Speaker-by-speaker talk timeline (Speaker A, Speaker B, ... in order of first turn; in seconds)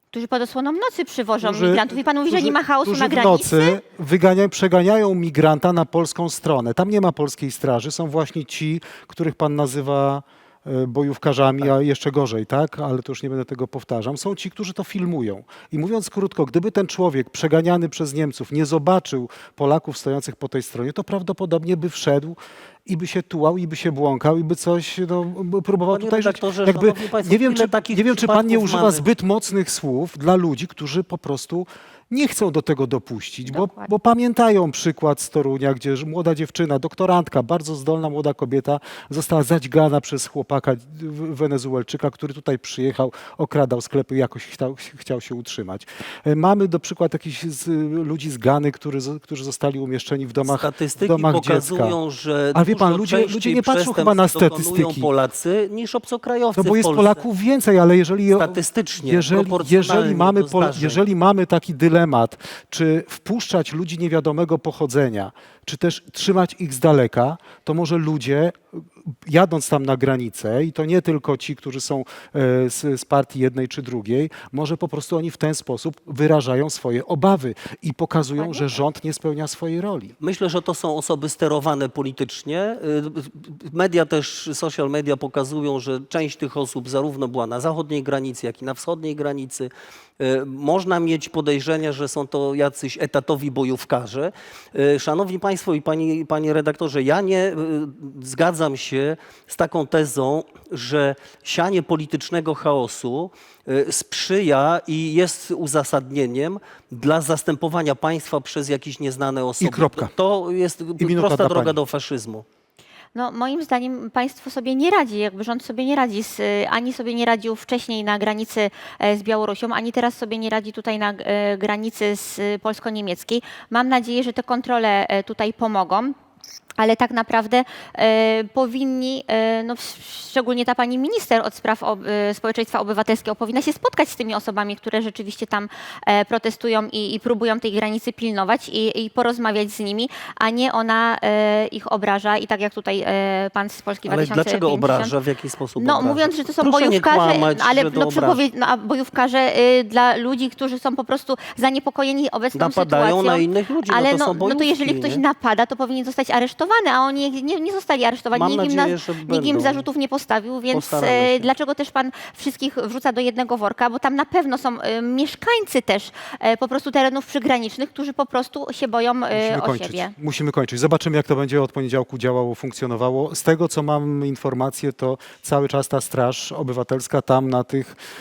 Speaker A: 0.1-3.8, 33.5-33.9, 78.4-78.7, 113.2-126.1, 126.8-145.2, 145.8-170.1
Speaker B: 1.4-52.0, 52.5-55.1, 56.6-68.6, 69.3-80.2, 109.6-110.1, 111.0-111.8, 169.3-178.0
Speaker C: 25.9-29.1, 50.4-57.2, 58.4-61.0, 80.2-112.5, 144.1-148.4, 152.5-155.2, 158.3-159.8, 160.7-161.5